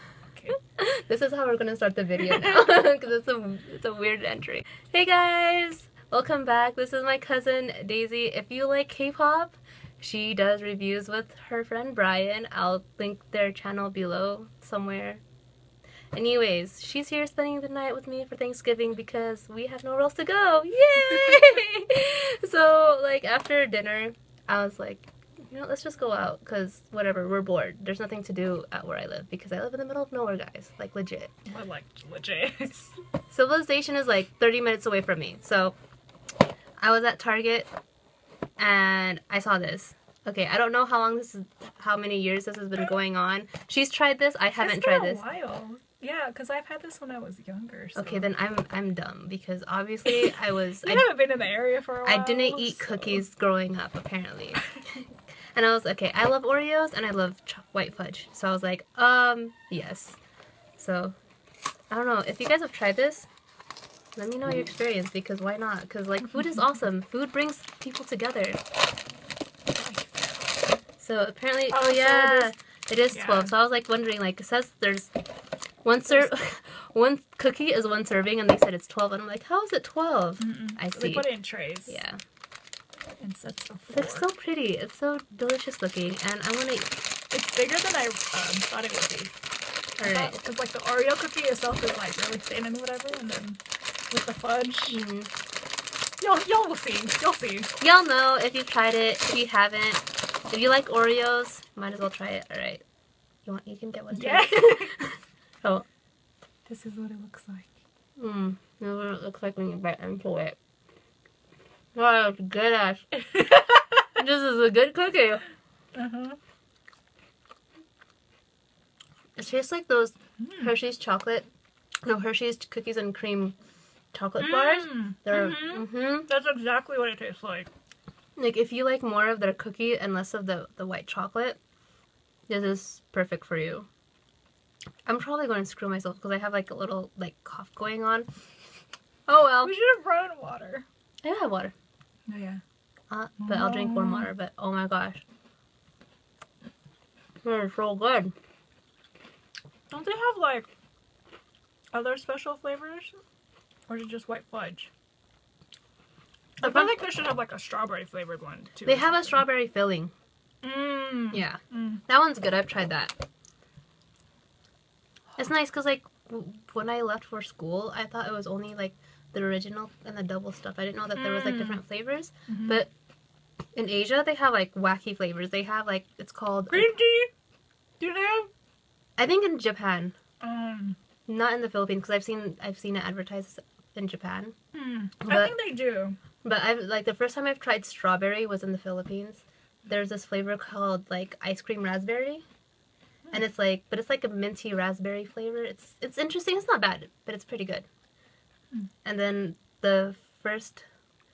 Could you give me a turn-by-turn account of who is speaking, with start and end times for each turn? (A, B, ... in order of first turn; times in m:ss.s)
0:00.8-0:15.2 A
0:16.1-0:31.3 A
0:31.5-0:33.0 B
0:33.3-0:35.8 A
0:36.8-0:37.7 A
0:38.6-0:45.2 A
0:44.6-0:48.3 B
0:48.0-0:51.1 A
0:50.1-0:53.2 B
0:52.0-1:00.2 A
1:00.8-1:01.2 A
1:01.9-1:03.3 A
1:04.2-1:08.6 A
1:09.7-1:10.6 B
1:11.0-1:15.1 A
1:11.7-1:12.5 B
1:13.1-1:13.5 B
1:15.8-1:21.3 A
1:20.4-1:22.0 B
1:21.9-1:22.2 A
1:23.2-1:24.3 B
1:23.9-1:26.9 A
1:27.3-1:29.3 B
1:30.0-1:30.4 A
1:30.0-1:33.6 B
1:34.1-1:35.0 B
1:34.9-1:35.3 A
1:36.2-1:37.8 B
1:37.8-1:42.8 A
1:43.4-1:45.8 A
1:44.1-1:45.0 B
1:46.7-1:47.7 B
1:48.2-1:50.6 A
1:52.0-1:53.2 A
1:54.2-1:55.4 A
1:55.9-1:56.4 B
1:59.4-2:01.5 A
2:00.4-2:00.7 B
2:02.0-2:03.6 A
2:04.1-2:06.3 A
2:04.4-2:07.7 B
2:08.4-2:11.6 A
2:12.5-2:13.9 A
2:15.1-2:18.3 A
2:19.3-2:19.7 A
2:19.6-2:20.8 B
2:21.2-2:21.7 A
2:22.3-2:22.6 B
2:23.1-2:25.2 A
2:23.4-2:24.3 B
2:27.4-2:28.3 A
2:29.9-2:30.7 B
2:31.9-2:33.2 B
2:33.9-2:34.9 B
2:36.6-2:39.4 B
2:36.6-2:37.0 A
2:38.9-2:40.1 A
2:40.6-2:42.0 B
2:41.3-2:43.1 A
2:45.4-2:52.9 A
2:51.1-2:51.8 B
2:52.5-2:52.8 B
2:53.8-2:56.9 A
2:56.7-2:57.3 B
2:58.0-2:58.5 B
2:59.2-3:00.2 A
3:00.4-3:01.0 B
3:01.3-3:04.6 A
3:04.7-3:06.2 B
3:05.2-3:05.5 A
3:06.4-3:12.4 A
3:13.3-3:17.9 A
3:19.0-3:20.8 A